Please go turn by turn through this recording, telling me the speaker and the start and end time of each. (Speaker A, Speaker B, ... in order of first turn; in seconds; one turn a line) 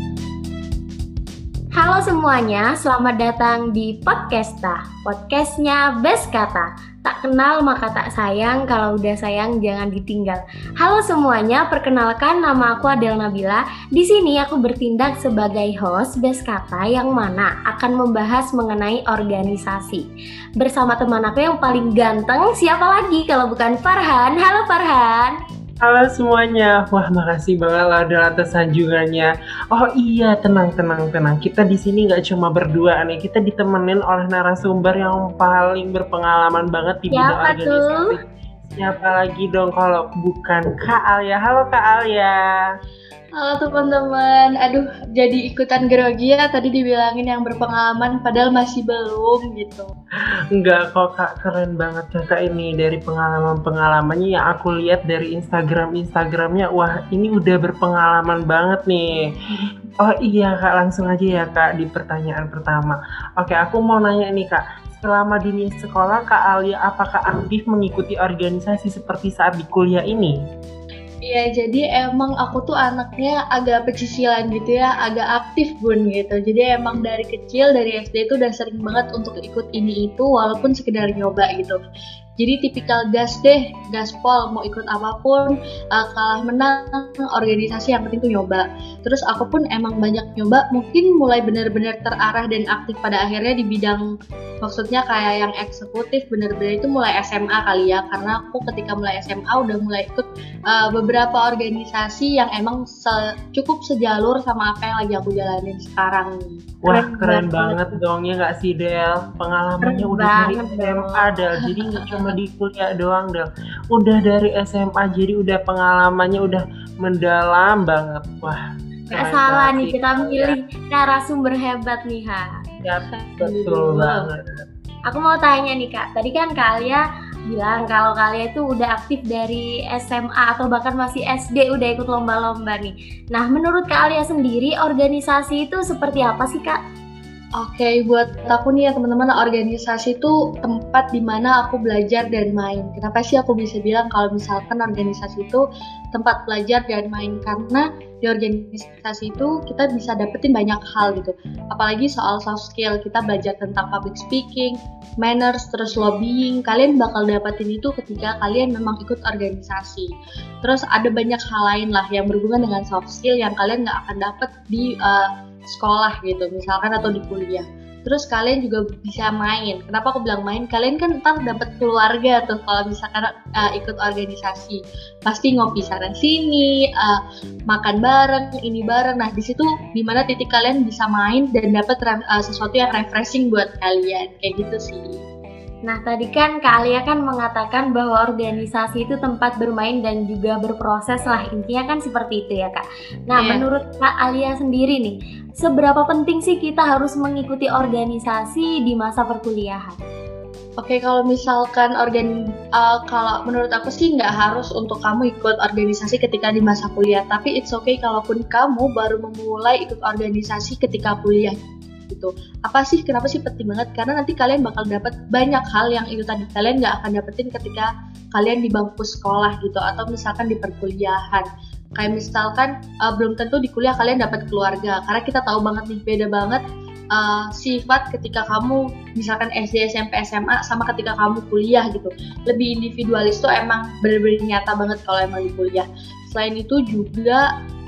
Speaker A: 1.8-20.0
Speaker A: 20.6-25.3
Speaker B: 25.8-42.6
Speaker A: 37.1-38.1
Speaker C: 43.4-49.9
Speaker B: 50.6-59.1
Speaker B: 60.0-70.3
Speaker C: 71.2-81.8
Speaker C: 82.4-94.0
Speaker C: 94.6-106.7
Speaker B: 106.8-118.6
Speaker A: 106.9-108.0
Speaker A: 109.8-112.2
Speaker A: 119.1-122.6
Speaker B: 119.1-120.5
Speaker B: 122.8-124.7
Speaker C: 123.2-124.3
Speaker A: 125.1-136.8
Speaker C: 137.6-160.1
Speaker C: 160.6-185.2
Speaker A: 185.8-200.0
Speaker C: 193.3-193.6
Speaker C: 200.8-237.4